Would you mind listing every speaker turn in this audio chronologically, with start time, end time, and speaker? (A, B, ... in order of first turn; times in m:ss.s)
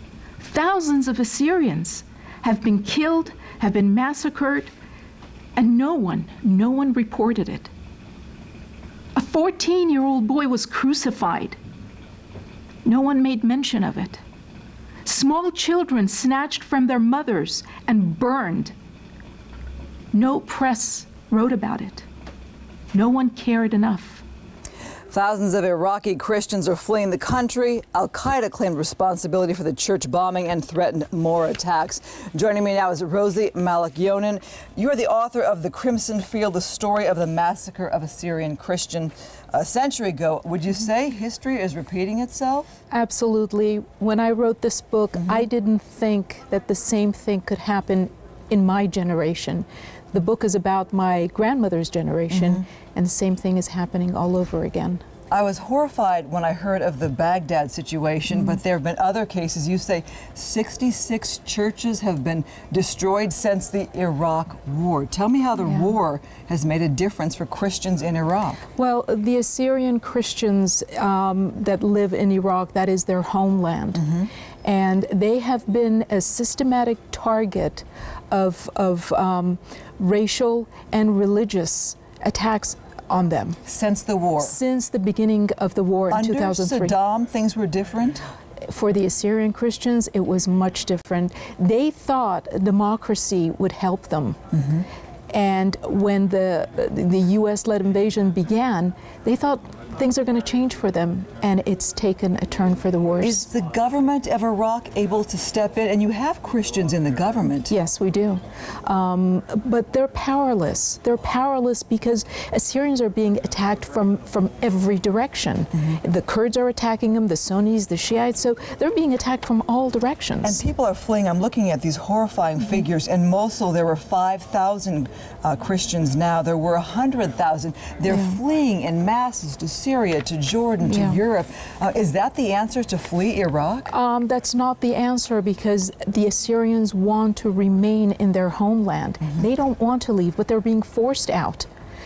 0:00.4-0:04.7 A
0:05.5-0:07.7 A
0:09.1-0:11.6 A
0:12.8-0:14.2 A
0:15.0-0:18.7 A
0:20.1-0:22.1 A
0:22.9-0:24.2 A
0:25.1-0:42.8 B
0:42.9-0:55.0 A
0:45.2-0:45.4 B
0:52.3-0:52.6 B
0:55.3-1:08.6 B
1:08.8-1:14.0 A
1:14.0-1:14.3 B
1:14.6-1:23.6 A
1:23.6-1:24.6 B
1:24.4-1:26.9 A
1:26.1-1:28.2 B
1:28.7-1:34.4 A
1:34.6-1:34.8 B
1:35.3-1:43.5 A
1:43.2-1:47.7 B
1:47.7-2:00.6 A
2:00.4-2:13.9 B
2:08.1-2:08.4 A
2:10.8-2:11.2 A
2:13.9-2:21.7 A